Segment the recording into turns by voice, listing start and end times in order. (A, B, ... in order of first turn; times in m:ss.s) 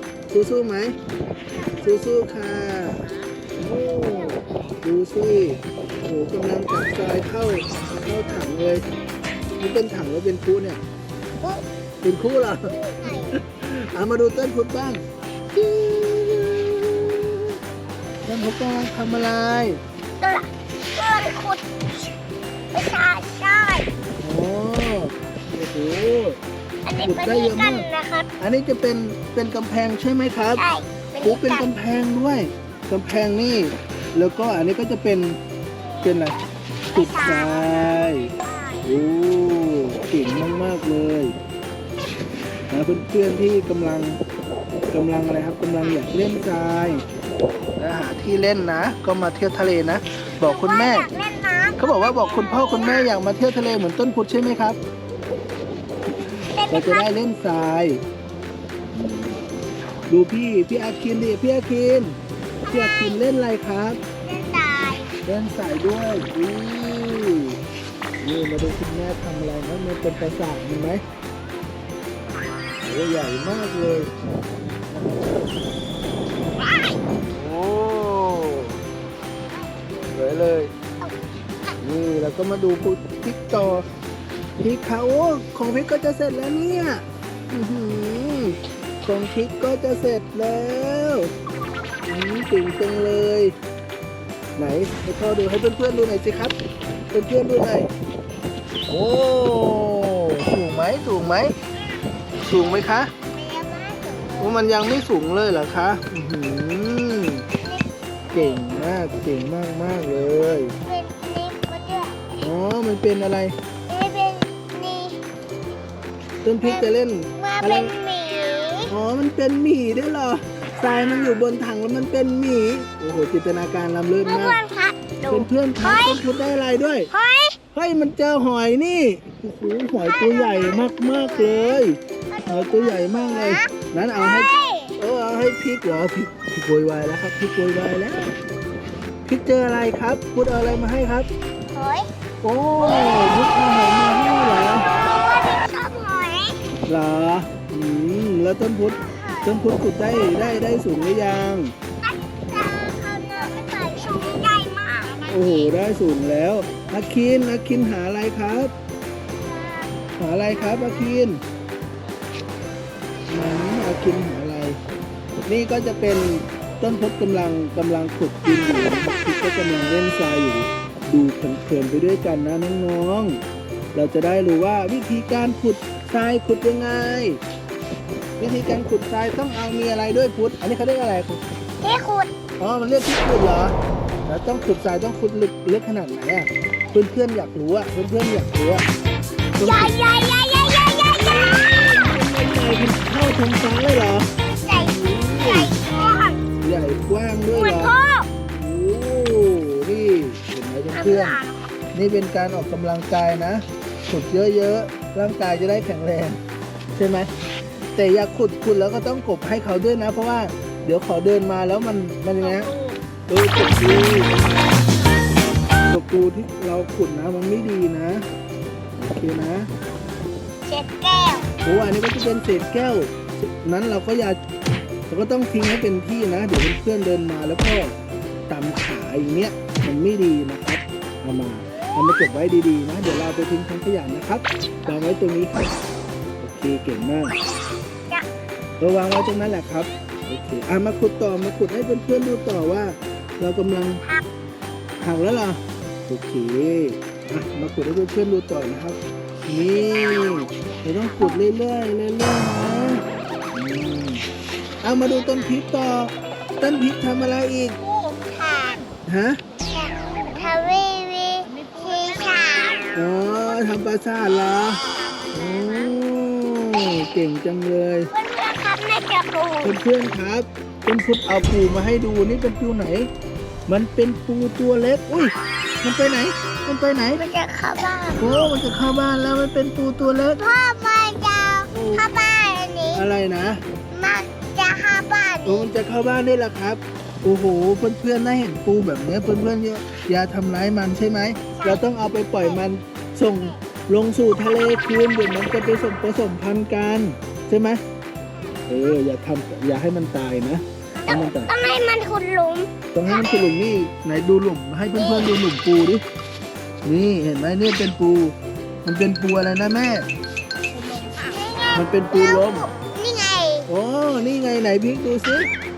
0:00.3-0:01.0 A
0:01.8-0:03.0 A
0:03.6-0:08.9 A
0:03.8-0:04.4 B
0:09.6-0:10.8 A
0:12.0-0:17.5 A
0:12.7-0:13.4 B
0:18.2-0:19.8 A
0:20.2-0:21.6 B
0:22.7-0:23.9 B
0:24.2-0:26.4 A
0:26.8-0:28.3 B
0:27.0-0:27.9 A
0:28.4-0:30.6 A
0:30.6-0:31.7 B
0:31.2-0:35.4 A
0:36.0-0:36.4 A
0:36.9-0:38.9 B
0:36.9-0:38.3 A
0:38.8-0:41.4 A
0:42.7-0:44.2 A
0:44.9-0:47.1 A
0:47.8-0:51.1 A
0:50.4-0:53.1 B
0:51.8-0:54.8 A
0:56.5-0:57.1 B
0:56.7-0:58.0 A
0:58.9-0:59.5 A
1:00.1-1:02.2 A
1:02.6-1:03.2 B
1:02.7-1:04.0 A
1:04.2-1:05.2 B
1:05.2-1:07.6 A
1:08.2-1:11.0 A
1:12.8-1:14.1 A
1:14.9-1:15.5 A
1:17.3-1:18.8 A
1:20.1-1:20.7 A
1:21.8-1:23.9 A
1:24.6-1:31.3 A
1:32.1-1:33.6 A
1:34.6-1:36.6 A
1:37.1-1:37.9 A
1:38.9-1:41.6 A
1:42.4-1:43.1 A
1:42.5-1:44.6 B
1:44.4-1:47.4 A
1:47.6-1:48.6 B
1:48.3-1:50.8 A
1:50.8-1:52.4 B
1:52.4-1:53.5 A
1:53.9-1:55.2 B
1:56.4-1:57.9 A
1:56.6-1:58.9 B
1:58.9-2:04.6 A
2:04.2-2:06.2 B
2:05.3-2:07.1 A
2:07.1-2:07.6 B
2:07.7-2:12.0 A
2:10.0-2:15.0 B
2:12.5-2:18.2 A
2:19.2-2:21.3 A
2:21.7-2:22.1 B
2:22.4-2:24.9 A
2:22.9-2:23.3 B
2:24.8-2:26.6 B
2:26.9-2:31.7 A
2:28.8-2:31.3 B
2:32.0-2:35.7 B
2:35.3-2:38.7 A
2:39.4-2:40.0 B
2:40.2-2:41.4 A
2:40.5-2:41.1 B
2:43.3-2:44.8 A
2:45.5-2:53.4 A
2:53.9-2:57.4 A
2:58.4-3:01.4 A
3:01.8-3:02.3 B
3:02.6-3:08.9 A
3:09.6-3:10.0 A
3:09.6-3:12.2 B
3:11.3-3:14.3 A
3:14.6-3:16.4 B
3:14.8-3:15.7 A
3:16.6-3:17.9 A
3:17.5-3:18.3 B
3:18.6-3:21.4 A
3:20.9-3:21.6 B
3:21.9-3:26.4 A
3:27.0-3:27.3 A
3:28.0-3:32.7 A
3:32.4-3:33.0 B
3:33.3-3:34.4 A
3:35.9-3:38.2 A
3:39.0-3:39.7 A
3:40.6-3:41.5 B
3:41.6-3:44.4 A
3:45.1-3:48.0 A
3:48.5-3:55.7 A
3:56.4-3:57.4 A
3:58.8-4:04.0 A
4:05.0-4:13.0 A
4:09.7-4:11.4 B
4:13.5-4:14.3 A
4:14.8-4:17.8 A
4:17.9-4:18.9 B
4:19.0-4:19.4 A
4:19.7-4:22.9 B
4:22.9-4:28.1 A
4:28.1-4:29.8 B
4:29.6-4:33.1 A
4:33.7-4:37.3 A
4:37.2-4:38.6 B
4:38.2-4:40.4 A
4:40.4-4:43.1 B
4:41.7-4:42.0 A
4:42.9-4:43.6 A
4:43.9-4:45.7 B
4:45.4-4:57.8 A
4:51.5-4:51.8 B
4:58.7-5:01.5 A
5:01.0-5:03.4 B
5:02.9-5:06.0 A
5:05.0-5:05.3 B
5:06.8-5:10.1 A
5:11.0-5:13.7 B
5:11.7-5:12.7 A
5:13.7-5:15.5 A